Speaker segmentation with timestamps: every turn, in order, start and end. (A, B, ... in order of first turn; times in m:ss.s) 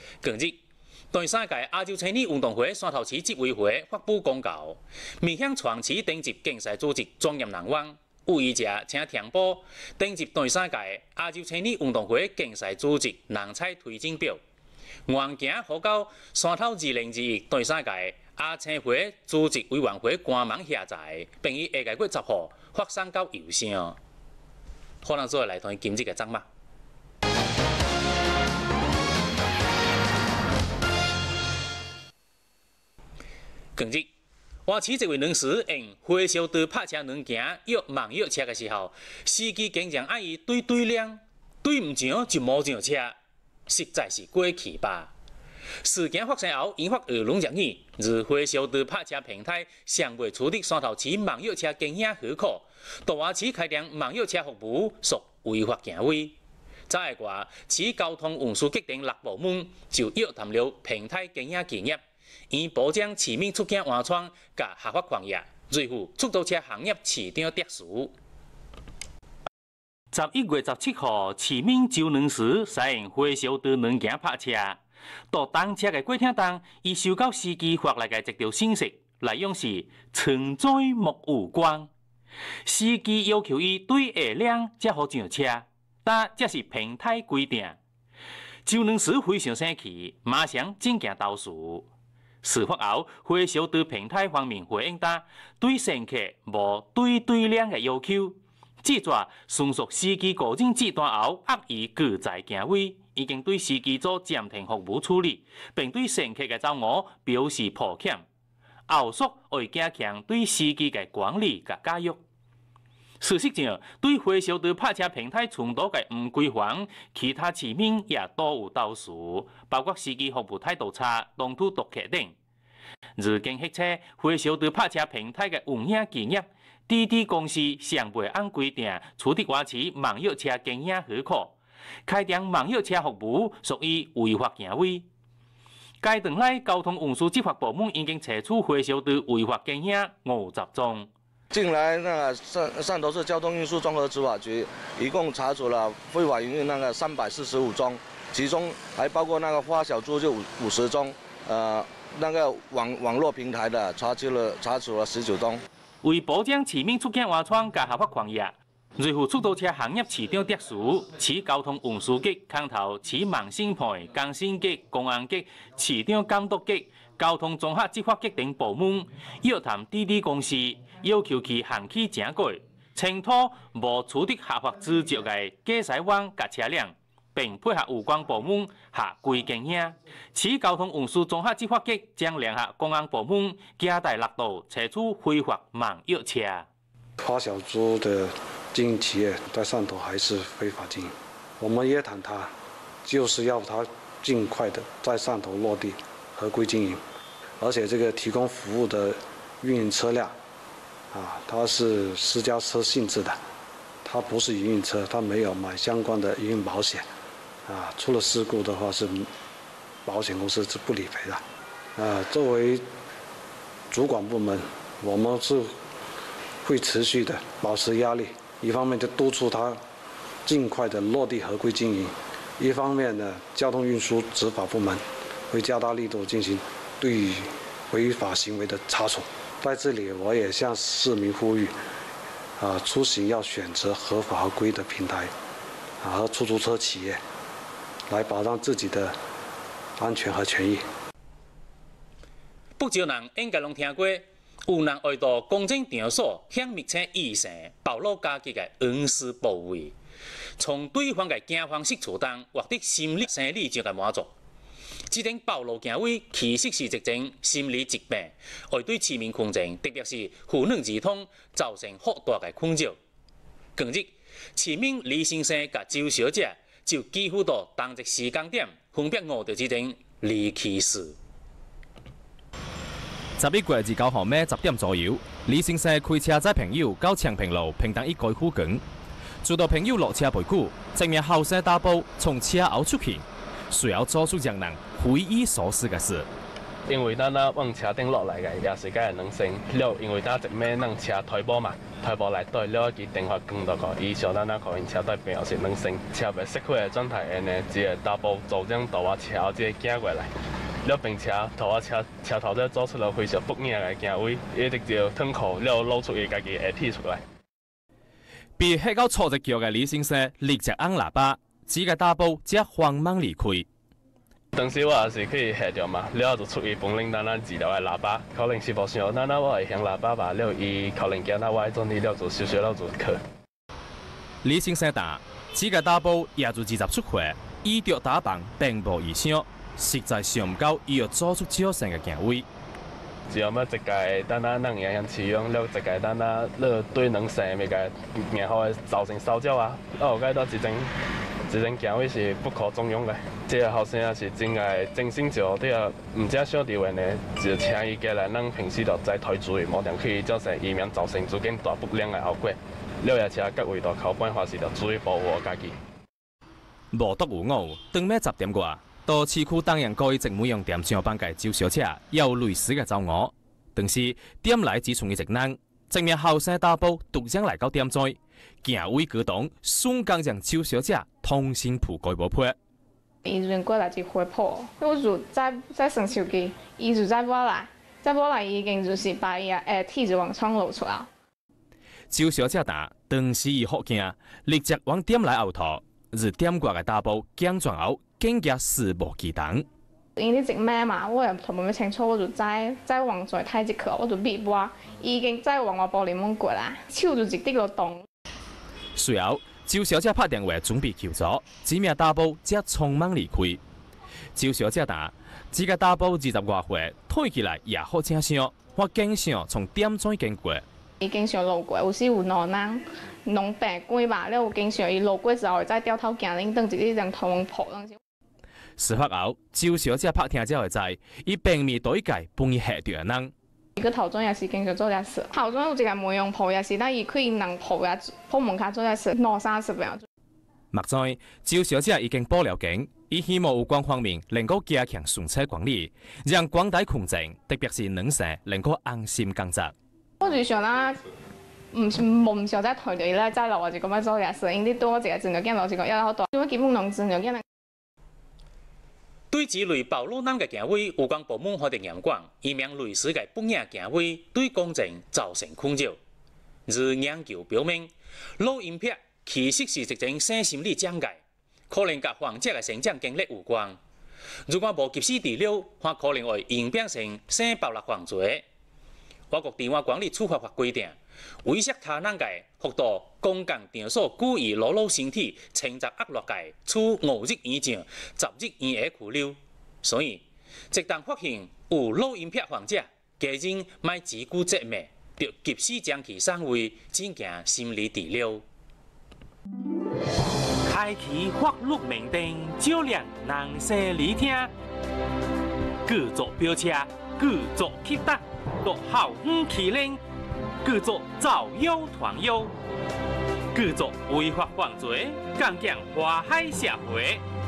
0:00.2-0:00.6 A
0:01.1-0:14.4 A
0:15.1-0:24.0 A
0:25.0-0:26.4 A
0:33.8-0:34.1 A
0:34.6-0:43.2 A
0:43.7-0:45.1 A
0:45.8-0:56.3 A
0:56.9-1:08.1 A
1:10.1-1:14.8 A
1:15.3-1:21.9 A
1:22.6-1:27.8 A
1:28.6-1:31.9 A
1:32.4-1:48.2 A
1:48.9-1:52.2 A
1:53.2-2:02.3 A
2:03.2-2:11.6 A
2:12.1-2:15.0 A
2:16.0-2:21.1 A
2:21.5-2:35.6 B
2:36.0-3:06.7 A
3:07.2-3:12.5 C
3:13.0-3:17.0 C
3:17.6-3:20.4 C
3:21.1-3:23.4 C
3:24.0-3:27.1 C
3:27.7-3:29.3 C
3:30.0-3:31.4 C
3:32.0-3:32.9 C
3:33.9-3:35.8 C
3:36.6-3:39.8 C
3:40.4-3:51.8 C
3:52.6-3:55.3 C
3:56.0-3:57.2 C
3:58.1-3:59.2 C
4:00.0-4:00.8 C
4:02.8-4:09.9 A
4:10.6-4:14.3 A
4:15.1-4:23.0 A
4:23.8-4:31.2 A
4:33.4-4:38.8 D
4:39.4-4:46.3 D
4:46.9-5:00.3 E
5:00.8-5:07.2 E
5:08.6-5:13.7 D
5:14.5-5:23.2 E
5:24.4-5:32.5 D
5:33.3-5:40.9 E
5:41.5-5:55.8 E
5:56.9-6:12.6 D
6:13.2-6:21.1 F
6:22.1-6:29.6 D
6:30.2-6:38.0 F
6:38.9-6:43.6 D
6:44.4-6:50.6 D
6:51.0-6:58.0 F
6:58.8-7:03.3 D
7:03.8-7:10.0 F
7:10.7-7:19.7 D
7:20.2-7:21.0 F
7:21.7-7:27.4 F
7:29.3-7:36.0 A
7:36.6-7:43.8 A
7:44.5-7:48.4 A
7:49.3-8:08.4 A
8:10.6-8:14.5 A
8:15.8-8:20.0 A
8:20.6-8:22.5 A
8:23.5-8:27.2 A